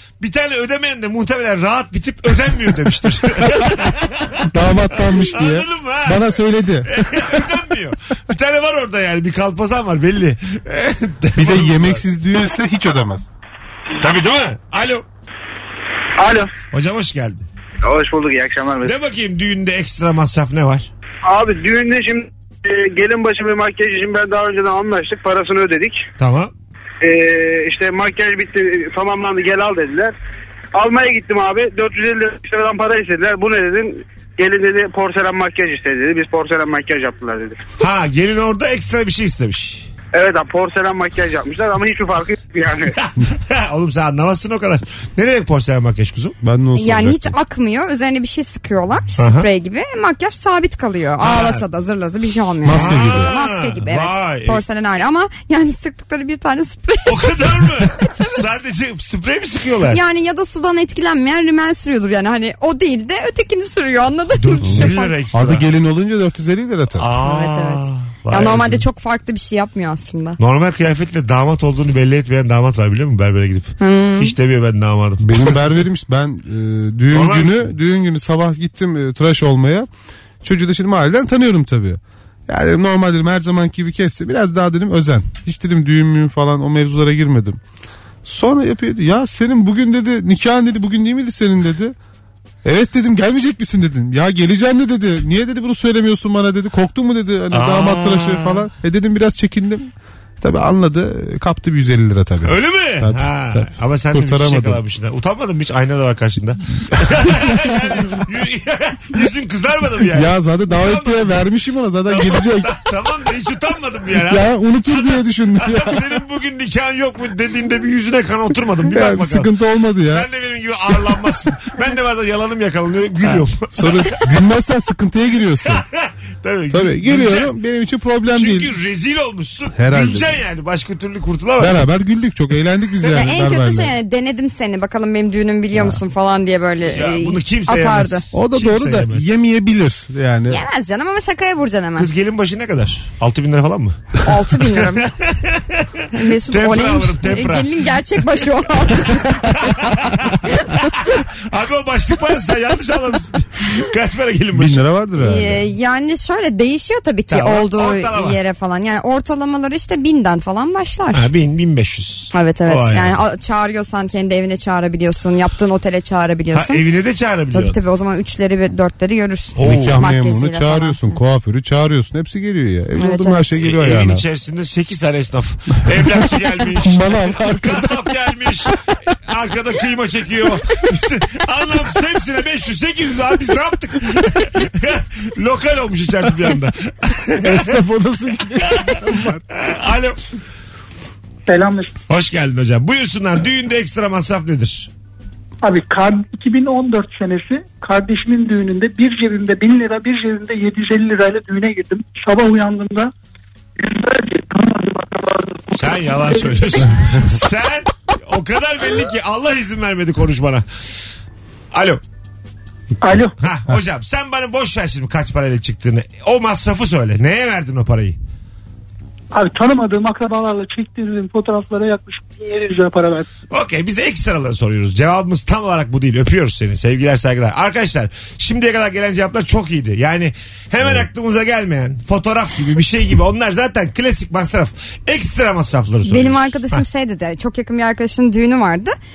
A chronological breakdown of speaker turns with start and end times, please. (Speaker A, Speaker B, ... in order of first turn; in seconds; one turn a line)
Speaker A: 0.2-12.0
Speaker B: 4.5-7.4
Speaker B: 11.4-13.2
Speaker A: 14.0-15.0
Speaker A: 16.7-17.4
Speaker A: 18.8-20.9
Speaker C: 21.3-22.2
Speaker C: 23.0-25.9
Speaker A: 26.2-26.5
Speaker C: 27.0-30.1
Speaker C: 30.8-33.9
Speaker C: 34.4-37.5
Speaker A: 37.8-39.9
Speaker C: 40.2-42.8
Speaker A: 42.9-46.4
Speaker B: 46.4-47.3
Speaker D: 46.8-57.3
Speaker A: 49.2-49.5
Speaker A: 51.2-51.6
Speaker B: 52.6-53.3
Speaker A: 52.7-54.6
Speaker A: 57.0-60.0
Speaker D: 57.9-58.5
Speaker D: 59.9-65.2
Speaker A: 64.3-65.7
Speaker B: 64.7-67.1
Speaker A: 66.9-68.9
Speaker D: 67.2-70.4
Speaker A: 70.4-75.8
Speaker D: 73.8-74.3
Speaker B: 75.2-79.9
Speaker A: 77.1-77.7
Speaker B: 80.4-87.6
Speaker B: 88.2-91.9
Speaker B: 92.6-104.8
Speaker A: 97.5-98.7
Speaker A: 102.4-111.4
Speaker B: 110.1-112.7
Speaker A: 112.0-119.5
Speaker B: 114.2-116.0
Speaker B: 118.9-120.3
Speaker A: 120.0-124.1
Speaker B: 123.3-125.8
Speaker A: 125.6-127.5
Speaker B: 126.7-128.7
Speaker A: 128.3-131.8
Speaker B: 129.7-130.3
Speaker B: 131.6-133.9
Speaker D: 133.0-138.2
Speaker B: 135.7-136.0
Speaker A: 136.8-139.4
Speaker B: 138.3-140.6
Speaker D: 140.5-142.1
Speaker A: 142.0-144.0
Speaker D: 144.2-145.1
Speaker A: 144.6-147.7
Speaker D: 146.1-149.6
Speaker A: 149.3-154.8
Speaker B: 154.5-155.6
Speaker D: 155.2-161.3
Speaker A: 157.3-158.4
Speaker A: 161.1-163.2
Speaker D: 162.3-166.8
Speaker A: 166.5-167.8
Speaker D: 167.5-171.2
Speaker A: 169.6-170.0
Speaker B: 169.6-174.2
Speaker D: 173.0-173.5
Speaker A: 173.6-187.8
Speaker B: 176.6-178.0
Speaker B: 187.4-189.4
Speaker A: 188.6-190.2
Speaker E: 191.5-191.9
Speaker A: 192.1-194.9
Speaker E: 195.6-203.1
Speaker E: 203.8-207.0
Speaker A: 205.7-210.7
Speaker A: 211.7-212.0
Speaker E: 213.0-213.3
Speaker A: 213.4-218.2
Speaker E: 219.3-223.3
Speaker A: 223.5-236.8
Speaker D: 236.1-238.9